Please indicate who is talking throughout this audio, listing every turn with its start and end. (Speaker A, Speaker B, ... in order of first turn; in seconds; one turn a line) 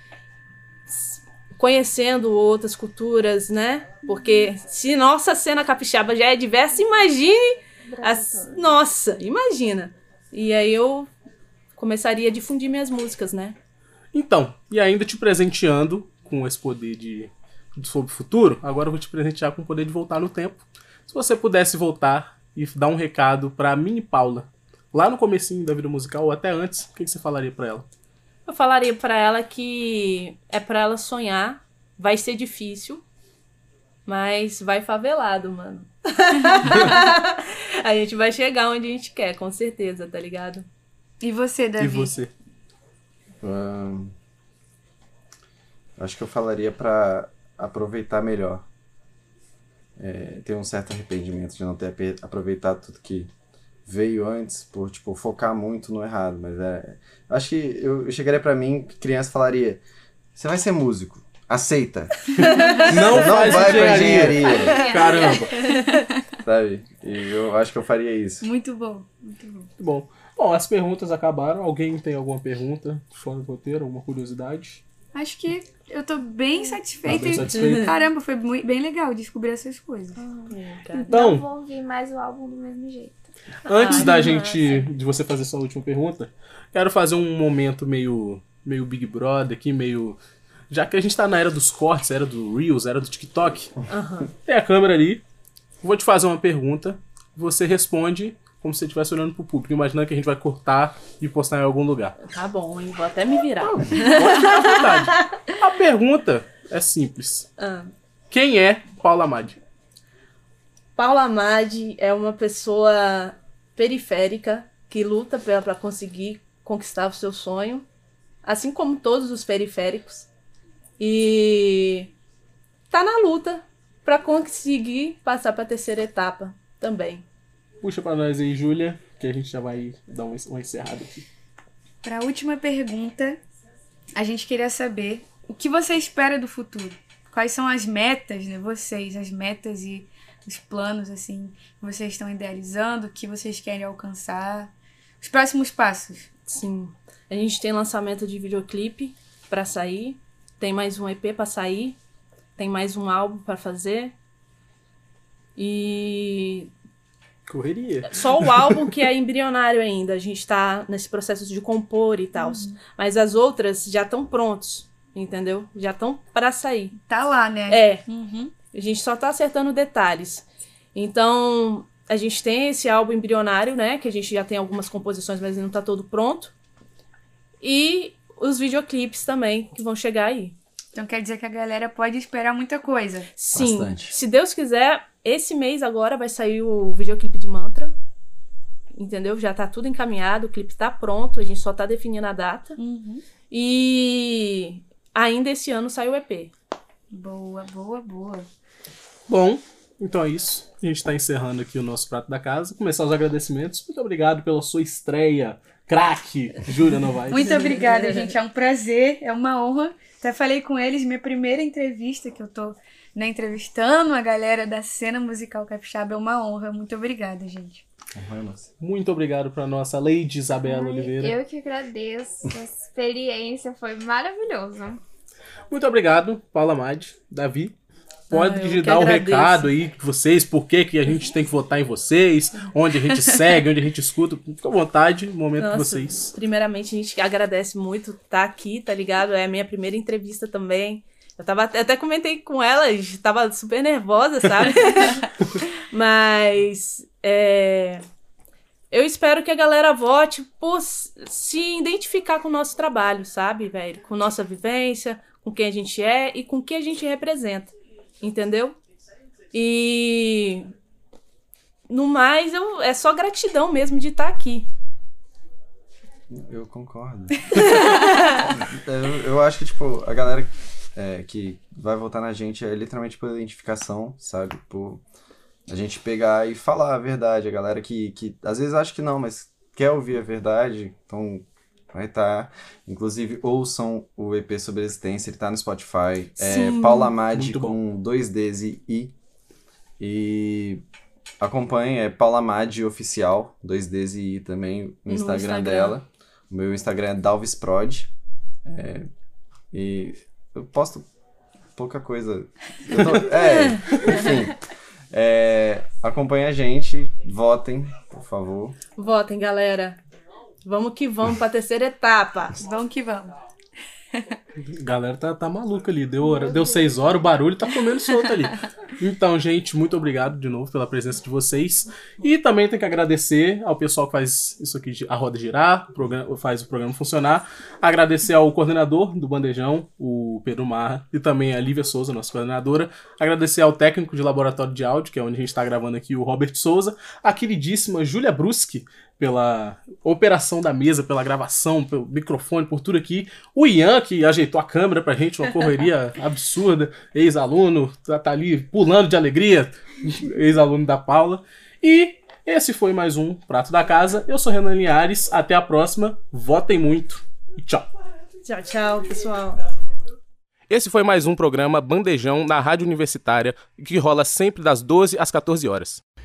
Speaker A: 0.9-11.1
Speaker B: 4.1-4.5
Speaker B: 7.9-8.8
Speaker A: 11.8-13.6
Speaker C: 14.1-27.9
Speaker A: 28.5-33.0
Speaker A: 34.1-40.7
Speaker D: 41.2-42.1
Speaker C: 41.8-42.3
Speaker E: 43.4-44.1
Speaker E: 46.0-48.7
Speaker E: 50.0-53.3
Speaker E: 53.9-59.8
Speaker E: 60.4-64.8
Speaker A: 62.4-62.9
Speaker D: 62.6-62.9
Speaker C: 62.9-65.6
Speaker D: 63.4-66.2
Speaker A: 64.9-65.9
Speaker E: 66.4-68.5
Speaker D: 68.4-69.7
Speaker C: 69.8-74.8
Speaker D: 75.1-80.2
Speaker C: 77.0-78.0
Speaker A: 77.5-77.9
Speaker B: 80.2-83.3
Speaker A: 80.5-81.2
Speaker C: 81.1-81.4
Speaker A: 83.7-84.8
Speaker C: 83.7-90.2
Speaker B: 83.8-84.4
Speaker C: 90.7-93.7
Speaker A: 93.9-94.3
Speaker C: 94.5-95.2
Speaker C: 95.8-102.2
Speaker A: 102.2-105.4
Speaker C: 103.7-107.5
Speaker A: 107.6-107.9
Speaker C: 108.3-109.6
Speaker A: 111.0-117.8
Speaker A: 118.4-120.3
Speaker A: 121.0-122.1
Speaker A: 122.9-127.2
Speaker C: 127.8-131.3
Speaker D: 132.0-133.4
Speaker D: 134.2-146.3
Speaker A: 146.5-152.0
Speaker A: 152.6-154.2
Speaker A: 155.6-156.7
Speaker C: 157.5-158.7
Speaker A: 158.1-167.0
Speaker D: 162.4-162.8
Speaker D: 167.1-168.5
Speaker A: 167.7-168.1
Speaker A: 168.7-176.5
Speaker A: 177.6-180.6
Speaker D: 180.9-183.3
Speaker A: 183.4-187.9
Speaker E: 183.5-184.2
Speaker A: 189.0-192.8
Speaker D: 192.8-193.2
Speaker A: 193.5-196.5
Speaker D: 197.1-198.5
Speaker C: 199.3-207.8
Speaker D: 207.3-217.8
Speaker E: 218.1-218.7
Speaker C: 218.8-221.4
Speaker B: 220.6-225.0
Speaker C: 225.7-227.8
Speaker A: 228.3-229.7
Speaker C: 228.3-236.3
Speaker A: 235.6-248.0
Speaker A: 248.9-258.8
Speaker A: 259.5-260.7
Speaker A: 261.9-264.7
Speaker E: 266.3-275.0
Speaker A: 267.6-268.4
Speaker E: 275.7-289.1
Speaker A: 286.4-287.1
Speaker C: 287.3-287.8
Speaker E: 290.0-290.8
Speaker E: 291.4-298.1
Speaker A: 295.1-296.0
Speaker E: 298.6-299.1
Speaker E: 299.7-301.1
Speaker E: 301.8-308.8
Speaker A: 309.0-310.0
Speaker A: 310.6-312.6
Speaker D: 312.6-313.4
Speaker C: 314.6-357.9
Speaker D: 316.3-316.8
Speaker A: 358.4-359.6
Speaker C: 360.7-366.0